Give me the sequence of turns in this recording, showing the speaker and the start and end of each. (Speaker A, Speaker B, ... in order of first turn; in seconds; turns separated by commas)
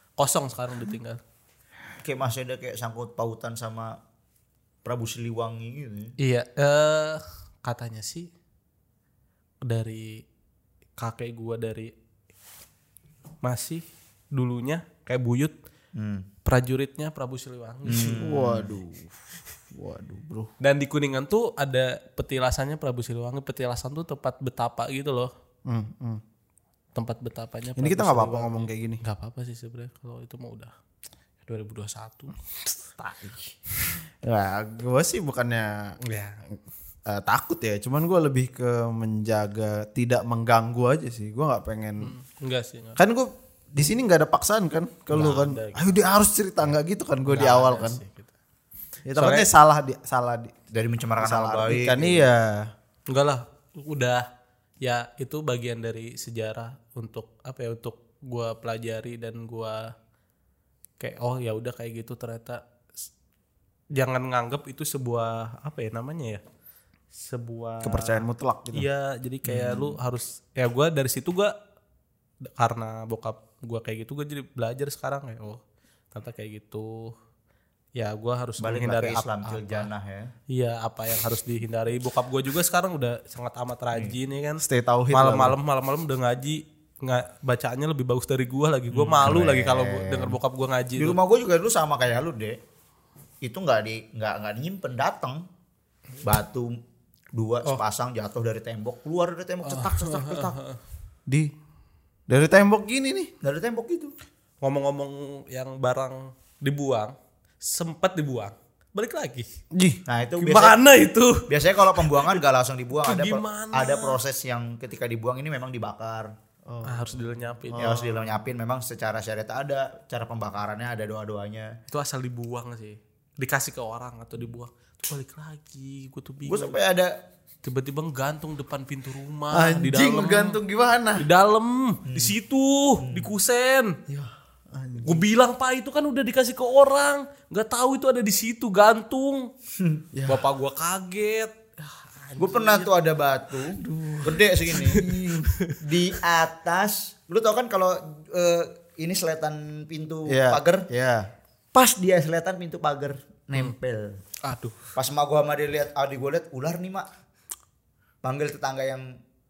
Speaker A: 0.2-1.2, Speaker B: 2.0-4.0, Speaker B: 4.8-6.1, Speaker A: 6.2-8.3, Speaker A: 9.6-10.2, Speaker A: 11.0-11.9, Speaker A: 13.4-15.5, Speaker B: 15.9-16.2, Speaker A: 16.4-18.3, Speaker B: 17.8-18.7, Speaker C: 18.2-20.5, Speaker A: 20.6-25.3, Speaker C: 25.6-26.2, Speaker A: 26.9-30.7, Speaker C: 27.8-29.0, Speaker A: 31.4-32.4, Speaker A: 32.9-33.5, Speaker C: 34.2-36.0, Speaker A: 36.0-36.4, Speaker C: 37.0-42.1, Speaker A: 42.0-43.0, Speaker C: 43.0-48.0, Speaker A: 45.1-46.0, Speaker A: 47.2-48.3, Speaker C: 49.0-50.5, Speaker A: 49.1-49.4, Speaker B: 50.7-52.2, Speaker C: 51.2-52.7, Speaker A: 53.1-54.2, Speaker A: 54.8-59.9, Speaker A: 61.0-63.1, Speaker A: 63.9-66.4, Speaker A: 67.1-71.5, Speaker C: 67.8-68.8, Speaker B: 69.4-70.0, Speaker A: 72.4-75.6, Speaker A: 76.1-77.1, Speaker A: 78.0-79.9, Speaker B: 78.6-80.3, Speaker A: 80.5-91.2, Speaker C: 84.6-85.6, Speaker B: 88.9-89.4, Speaker C: 89.2-90.4, Speaker B: 91.0-92.6, Speaker B: 93.4-95.4, Speaker B: 96.2-96.8, Speaker B: 97.3-100.6, Speaker A: 99.6-100.8, Speaker C: 101.3-101.5, Speaker C: 102.3-103.3, Speaker B: 103.4-104.1, Speaker A: 104.6-109.5, Speaker C: 109.7-110.0, Speaker B: 110.1-110.8, Speaker A: 110.4-112.2, Speaker B: 111.5-116.3, Speaker A: 113.0-114.2, Speaker C: 116.7-117.1, Speaker A: 116.8-117.9, Speaker C: 117.7-118.3, Speaker B: 117.8-121.8, Speaker A: 121.9-126.7, Speaker B: 126.4-127.2, Speaker A: 127.6-130.6, Speaker C: 129.5-131.2, Speaker A: 131.2-134.0, Speaker B: 132.1-132.3, Speaker B: 133.0-133.3, Speaker C: 134.1-135.2, Speaker A: 135.0-139.5, Speaker C: 140.1-140.4, Speaker A: 140.3-142.9, Speaker B: 142.4-145.1, Speaker C: 143.8-145.5, Speaker A: 144.7-145.8, Speaker B: 145.8-150.8, Speaker C: 150.3-151.3, Speaker B: 151.7-154.2, Speaker A: 154.4-154.8, Speaker B: 154.9-157.1, Speaker B: 158.2-159.1